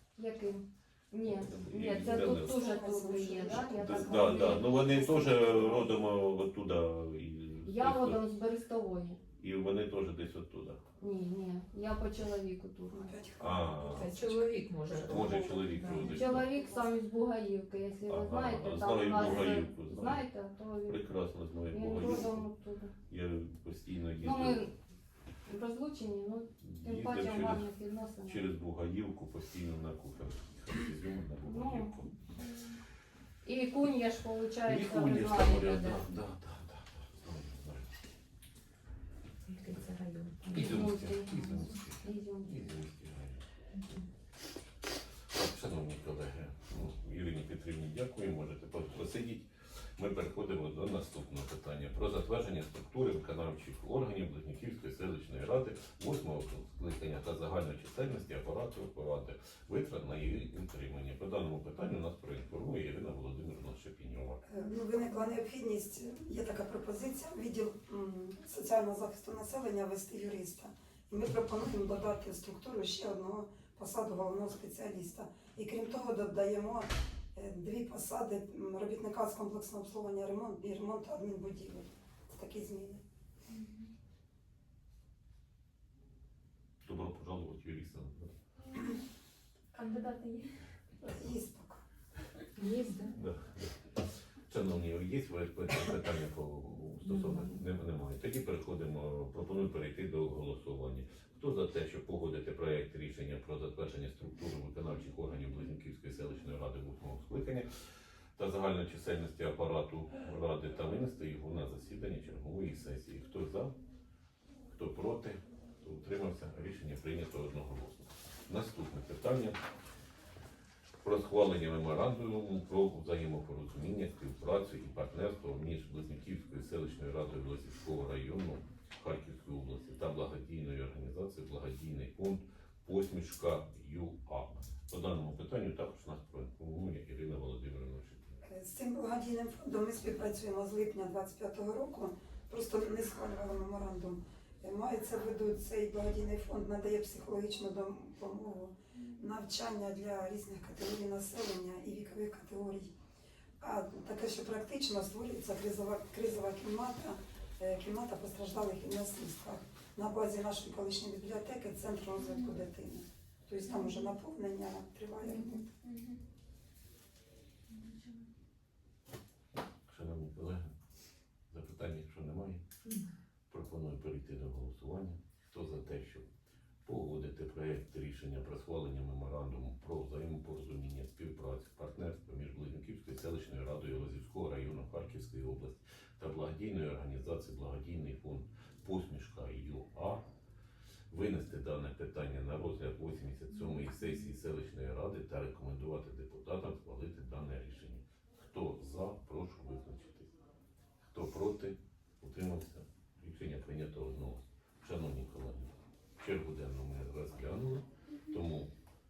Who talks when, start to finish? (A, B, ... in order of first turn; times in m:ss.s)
0:00.2-0:05.9 A
0:01.2-0:08.2 B
0:02.2-0:04.1 C
0:07.6-0:09.2 A
0:09.4-0:10.8 B
0:11.0-0:13.1 A
0:12.9-0:14.4 C
0:13.4-0:14.2 B
0:13.8-0:16.2 D
0:15.0-0:16.5 B
0:15.2-0:21.1 A
0:18.1-0:20.2 B
0:20.8-0:22.4 B
0:21.6-0:22.9 A
0:23.1-0:24.6 B
0:24.2-0:24.7 A
0:25.4-0:28.5 A
0:26.6-0:27.7 B
0:28.2-0:32.2 B
0:31.5-0:32.0 A
0:32.4-0:32.8 E
0:33.4-0:36.1 A
0:34.6-0:37.9 B
0:39.4-0:40.8 D
0:40.5-0:43.4 B
0:40.5-0:42.7 A
0:41.3-0:41.6 D
0:43.7-0:44.0 D
0:45.3-1:04.4 B
1:04.5-1:23.0 C
1:23.5-1:23.9 E
1:26.8-1:28.3 B
1:29.7-1:30.5 E
1:31.0-1:31.8 C
1:32.6-1:33.1 D
1:33.1-1:47.7 B
1:37.0-1:37.5 D
1:48.4-1:53.7 B
1:54.7-1:59.6 B
2:01.0-2:18.4 B
2:18.4-2:32.9 C
2:33.6-2:45.6 C
2:42.2-2:42.6 E
2:43.6-2:44.1 E
2:45.2-2:46.2 E
2:47.7-2:48.3 E
2:49.9-2:50.7 B
2:51.5-2:52.6 B
2:53.5-2:56.3 B
2:56.8-3:10.2 B
3:11.1-3:20.3 B
3:21.0-3:28.7 B